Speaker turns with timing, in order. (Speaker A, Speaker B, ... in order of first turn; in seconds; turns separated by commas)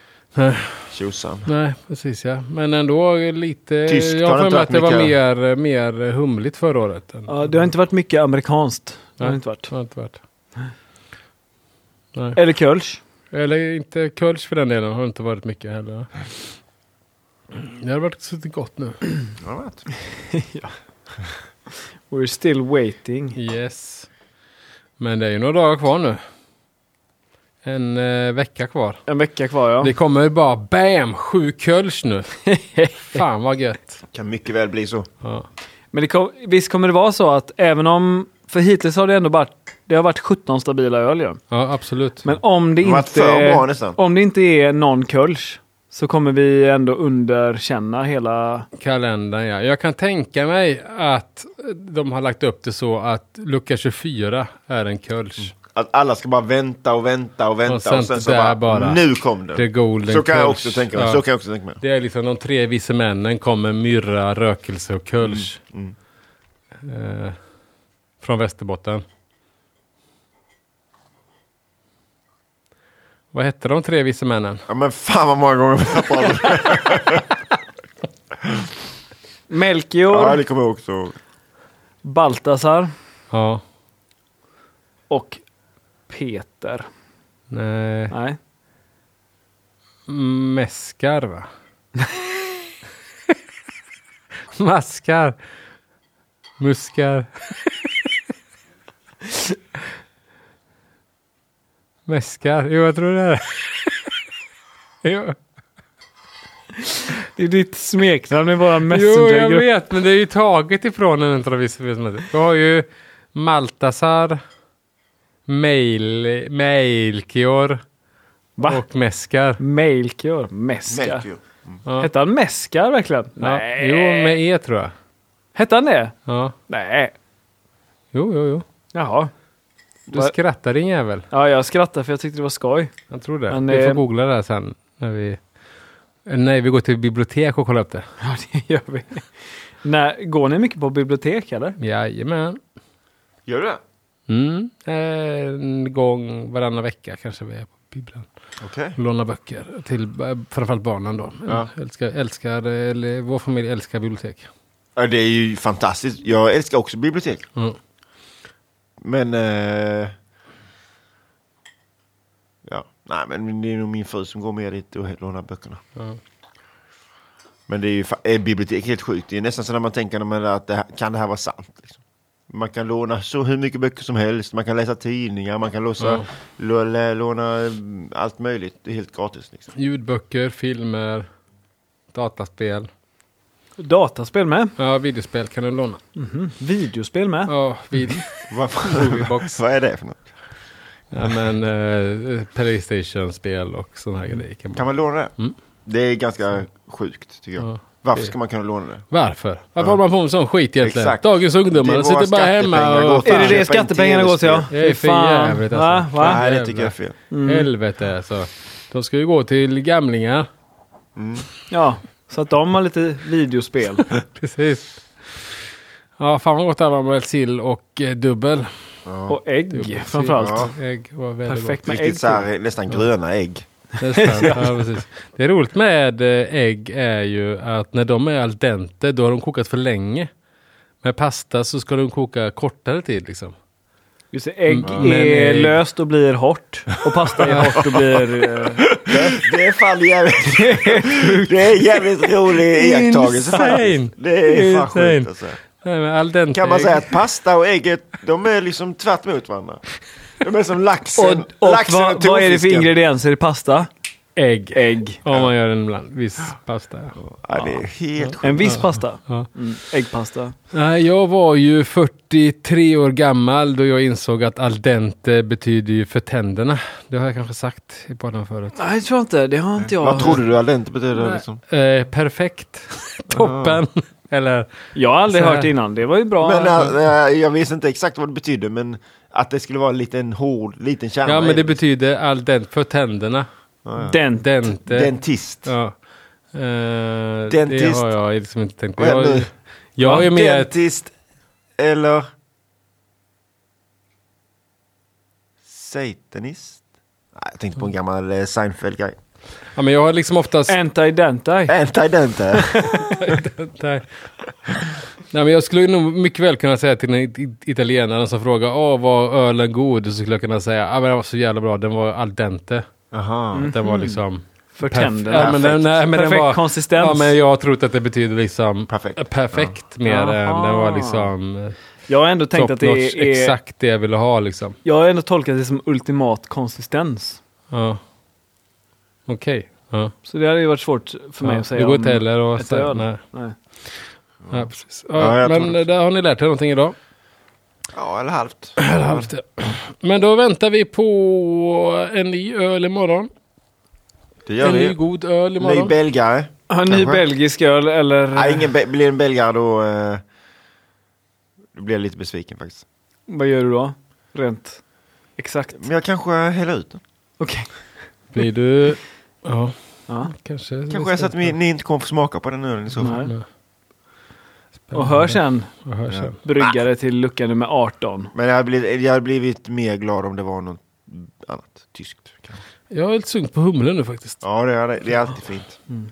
Speaker A: 0.4-0.8, Speaker B: 0.9-1.5, Speaker A: 1.5-7.3, Speaker B: 3.9-5.2, Speaker C: 7.3-9.7, Speaker A: 9.2-10.2, Speaker C: 12.3-13.0, Speaker A: 13.3-16.3, Speaker A: 17.5-19.1, Speaker B: 19.4-19.9, Speaker C: 20.3-20.7, Speaker C: 22.1-23.4, Speaker A: 23.4-24.1, Speaker A: 25.0-26.2, Speaker A: 27.6-29.0, Speaker C: 29.1-29.9, Speaker A: 29.8-32.3, Speaker C: 32.5-33.2, Speaker A: 33.1-34.0, Speaker B: 34.1-35.1, Speaker C: 35.9-41.4, Speaker A: 41.5-42.3, Speaker C: 42.2-48.7, Speaker B: 42.8-44.0, Speaker A: 48.8-55.5, Speaker B: 55.7-61.8, Speaker A: 57.7-61.2, Speaker A: 61.8-65.6, Speaker B: 65.2-65.9, Speaker A: 66.8-67.4, Speaker A: 68.2-69.0, Speaker A: 73.3-74.6, Speaker B: 74.7-77.2, Speaker C: 79.5-80.4, Speaker B: 80.1-81.2, Speaker C: 82.0-82.9, Speaker A: 83.3-83.6, Speaker C: 85.1-85.4, Speaker C: 86.1-86.9, Speaker A: 87.5-88.1, Speaker C: 88.1-88.4, Speaker A: 90.1-91.5, Speaker A: 94.6-95.4, Speaker A: 96.6-97.3, Speaker A: 102.1-104.0, Speaker A: 105.0-105.4, Speaker C: 106.8-109.7, Speaker A: 108.8-114.4, Speaker A: 115.5-117.8, Speaker C: 118.6-118.8, Speaker A: 118.6-119.6, Speaker C: 119.6-121.3, Speaker B: 120.9-121.8, Speaker C: 122.0-124.4, Speaker A: 123.4-124.9, Speaker C: 125.5-126.1, Speaker A: 126.3-126.5, Speaker C: 126.7-127.1, Speaker A: 128.1-128.7, Speaker C: 128.9-129.3, Speaker C: 130.1-130.3, Speaker A: 130.1-131.3, Speaker C: 131.3-132.9, Speaker A: 133.1-135.4, Speaker C: 133.5-134.0, Speaker A: 136.3-138.1, Speaker C: 138.2-141.8, Speaker A: 141.8-142.6, Speaker B: 143.5-143.8, Speaker A: 144.3-148.3, Speaker B: 148.6-149.0, Speaker A: 149.0-154.5, Speaker B: 155.0-157.4, Speaker B: 159.0-160.1, Speaker B: 162.7-165.8, Speaker B: 167.7-179.7, Speaker A: 176.0-176.3, Speaker A: 179.8-181.3, Speaker A: 182.1-182.9, Speaker C: 183.8-184.7, Speaker A: 184.8-186.0, Speaker C: 186.2-187.5, Speaker A: 187.5-189.6, Speaker B: 188.5-190.3, Speaker A: 191.1-194.9, Speaker B: 194.8-195.3, Speaker B: 195.9-199.1, Speaker A: 197.6-198.3, Speaker A: 199.1-203.7, Speaker B: 200.8-204.7, Speaker C: 203.2-206.4, Speaker A: 204.7-210.5, Speaker B: 206.2-207.2, Speaker C: 207.3-207.7, Speaker B: 211.2-211.5, Speaker C: 211.7-214.1, Speaker A: 214.2-214.9, Speaker A: 216.2-218.7, Speaker B: 219.1-219.4, Speaker C: 219.3-220.7, Speaker A: 219.7-221.8, Speaker B: 220.4-220.7, Speaker C: 221.5-222.5, Speaker B: 221.8-223.6, Speaker A: 224.0-230.3, Speaker C: 224.1-224.9, Speaker A: 231.0-233.5, Speaker C: 234.3-239.4, Speaker A: 234.7-235.8, Speaker B: 237.4-237.9, Speaker A: 237.4-237.8, Speaker B: 239.0-245.6, Speaker C: 240.5-242.3, Speaker A: 242.7-247.2, Speaker B: 246.5-249.8, Speaker B: 250.4-252.9, Speaker C: 251.2-253.9, Speaker A: 254.4-257.2, Speaker C: 254.7-255.2, Speaker B: 257.2-258.9, Speaker C: 257.6-257.8, Speaker A: 258.2-259.5, Speaker C: 258.4-260.6, Speaker A: 260.7-268.8, Speaker C: 268.8-270.4, Speaker B: 269.9-271.6, Speaker A: 271.1-274.7, Speaker B: 273.3-273.8, Speaker C: 274.9-276.9, Speaker A: 275.3-275.7, Speaker B: 276.4-281.8, Speaker A: 281.3-283.5, Speaker B: 283.9-285.7, Speaker C: 284.0-284.5, Speaker A: 284.3-286.0, Speaker A: 286.5-290.7, Speaker B: 287.5-288.1, Speaker B: 289.0-291.1, Speaker B: 291.8-292.2, Speaker B: 295.7-296.8, Speaker B: 297.4-299.1, Speaker A: 299.8-300.8, Speaker C: 300.7-301.8, Speaker B: 301.7-302.9, Speaker C: 302.7-303.0, Speaker A: 302.9-304.1, Speaker A: 305.2-312.9, Speaker B: 313.1-313.7, Speaker C: 313.5-314.2, Speaker A: 313.6-321.8, Speaker C: 314.7-317.4, Speaker B: 315.3-316.0, Speaker B: 318.9-319.8, Speaker C: 320.1-321.3, Speaker C: 322.1-323.6, Speaker A: 322.5-324.8, Speaker C: 324.9-327.4, Speaker A: 327.7-328.0, Speaker A: 329.3-330.1, Speaker C: 330.2-333.6, Speaker A: 331.4-333.2, Speaker B: 334.4-335.8, Speaker A: 334.5-336.9, Speaker B: 337.9-339.3, Speaker A: 338.8-343.3, Speaker B: 344.5-345.0, Speaker A: 344.6-346.0, Speaker B: 345.6-347.2, Speaker C: 346.7-348.7, Speaker B: 348.4-350.2, Speaker B: 351.8-352.8, Speaker C: 353.3-354.8, Speaker C: 355.4-355.8, Speaker B: 355.8-357.0, Speaker C: 357.4-357.7, Speaker A: 358.3-361.6, Speaker B: 360.9-363.2, Speaker A: 363.0-363.4, Speaker C: 363.0-363.3, Speaker A: 364.9-366.4, Speaker C: 364.9-365.7, Speaker B: 366.1-366.8, Speaker C: 366.4-368.3, Speaker B: 368.3-372.6, Speaker A: 372.9-374.4, Speaker B: 374.4-375.8